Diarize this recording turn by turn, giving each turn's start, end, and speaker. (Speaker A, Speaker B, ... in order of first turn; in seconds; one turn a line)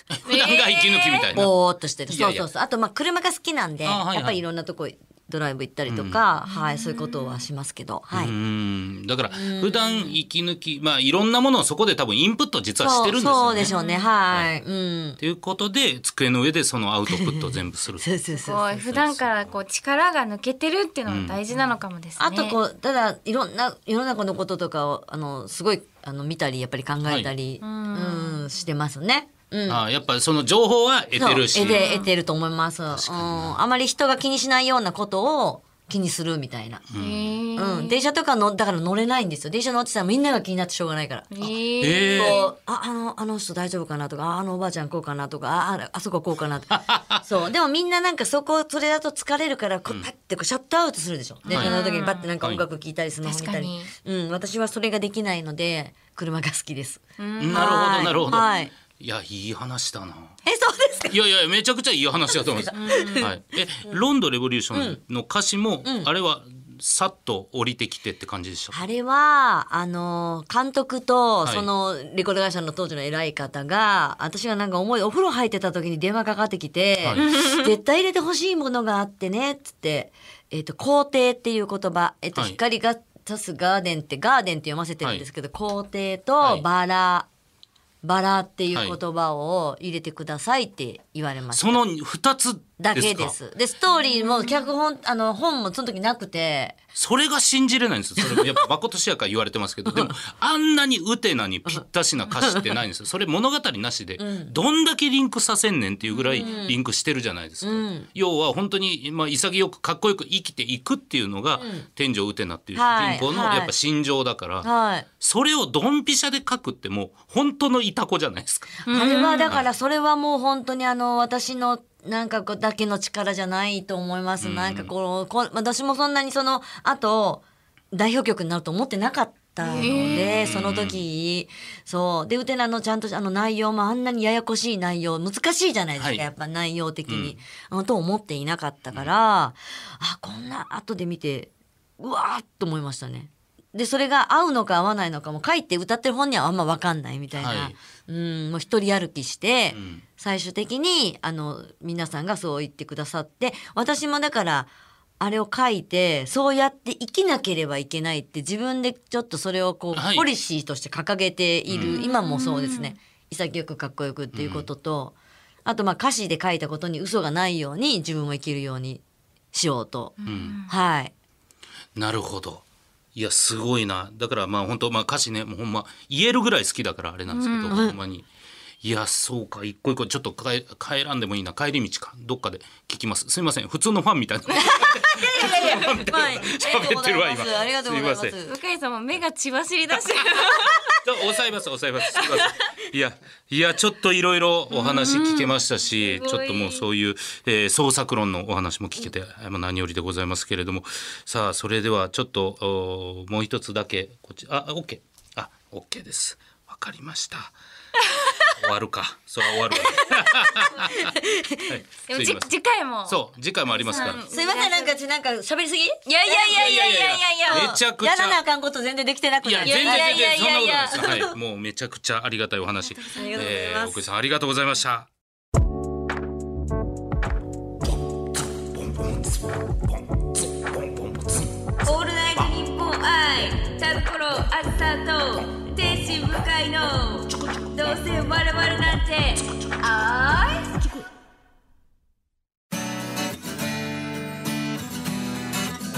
Speaker A: 0.1-1.5
Speaker B: 0.3-1.3
Speaker C: 1.3-8.3
Speaker A: 2.1-2.5
Speaker A: 3.8-4.4
Speaker A: 5.9-6.2
Speaker B: 6.5-7.4
Speaker A: 8.1-13.7
Speaker C: 9.3-10.2
Speaker C: 12.8-15.2
Speaker B: 13.6-14.1
Speaker A: 15.2-18.1
Speaker C: 17.1-18.8
Speaker B: 18.3-22.6
Speaker A: 18.9-19.5
Speaker A: 21.1-21.4
Speaker C: 22.2-29.8
Speaker A: 27.1-27.3
Speaker B: 27.6-28.5
Speaker A: 29.7-31.9
Speaker C: 31.1-36.8
Speaker B: 31.6-32.1
Speaker A: 32.9-33.6
Speaker A: 36.9-37.4
Speaker B: 37.0-38.0
Speaker C: 37.6-41.5
Speaker B: 41.3-42.5
Speaker A: 41.8-42.4
Speaker C: 42.1-58.7
Speaker A: 46.7-47.2
Speaker B: 51.5-52.3
Speaker B: 53.2-53.9
Speaker B: 57.2-58.7
Speaker A: 57.4-60.4
Speaker C: 60.5-61.1
Speaker A: 61.1-68.8
Speaker B: 62.7-63.3
Speaker C: 62.7-63.3
Speaker C: 64.7-65.0
Speaker C: 65.8-66.1
Speaker C: 68.7-87.3
Speaker A: 77.0-77.3
Speaker B: 77.2-77.7
Speaker C: 88.0-91.8
Speaker A: 91.5-93.3
Speaker C: 92.8-96.8
Speaker B: 94.0-94.6
Speaker A: 97.0-118.8
Speaker C: 98.2-98.7
Speaker C: 99.9-100.1
Speaker C: 101.7-102.7
Speaker C: 104.2-104.5
Speaker B: 106.1-106.7
Speaker C: 106.3-106.8
Speaker C: 107.6-108.1
Speaker C: 111.6-111.9
Speaker C: 112.8-113.7
Speaker C: 114.6-115.1
Speaker B: 118.8-119.5
Speaker C: 118.9-165.1
Speaker A: 124.4-124.9
Speaker B: 129.6-130.5
Speaker A: 129.8-131.0
Speaker A: 136.0-136.2
Speaker A: 137.1-137.3
Speaker A: 147.4-147.7
Speaker A: 149.7-150.1
Speaker A: 159.9-160.3
Speaker A: 161.7-162.0
Speaker B: 161.8-162.9
Speaker A: 164.3-164.7
Speaker C: 165.7-171.1
Speaker B: 170.2-170.7
Speaker A: 170.3-170.6
Speaker A: 172.0-172.6
Speaker A: 173.2-178.3
Speaker B: 177.3-177.8
Speaker C: 177.7-178.0
Speaker A: 178.8-188.4
Speaker C: 184.6-188.5
Speaker B: 188.4-190.9
Speaker A: 191.0-207.5
Speaker B: 192.2-192.4
Speaker B: 194.7-196.9
Speaker B: 208.0-208.6
Speaker A: 208.6-211.2
Speaker B: 209.8-210.1
Speaker C: 209.8-211.8
Speaker A: 211.7-212.5
Speaker B: 212.1-215.0
Speaker A: 213.1-214.2
Speaker C: 213.9-216.9
Speaker B: 216.1-217.7
Speaker A: 216.5-218.4
Speaker C: 217.5-221.3
Speaker A: 219.4-225.1
Speaker B: 219.7-220.8
Speaker B: 222.9-223.5
Speaker C: 223.1-224.0
Speaker A: 228.8-229.4
Speaker A: 230.5-231.5
Speaker B: 231.8-240.9
Speaker C: 237.8-238.5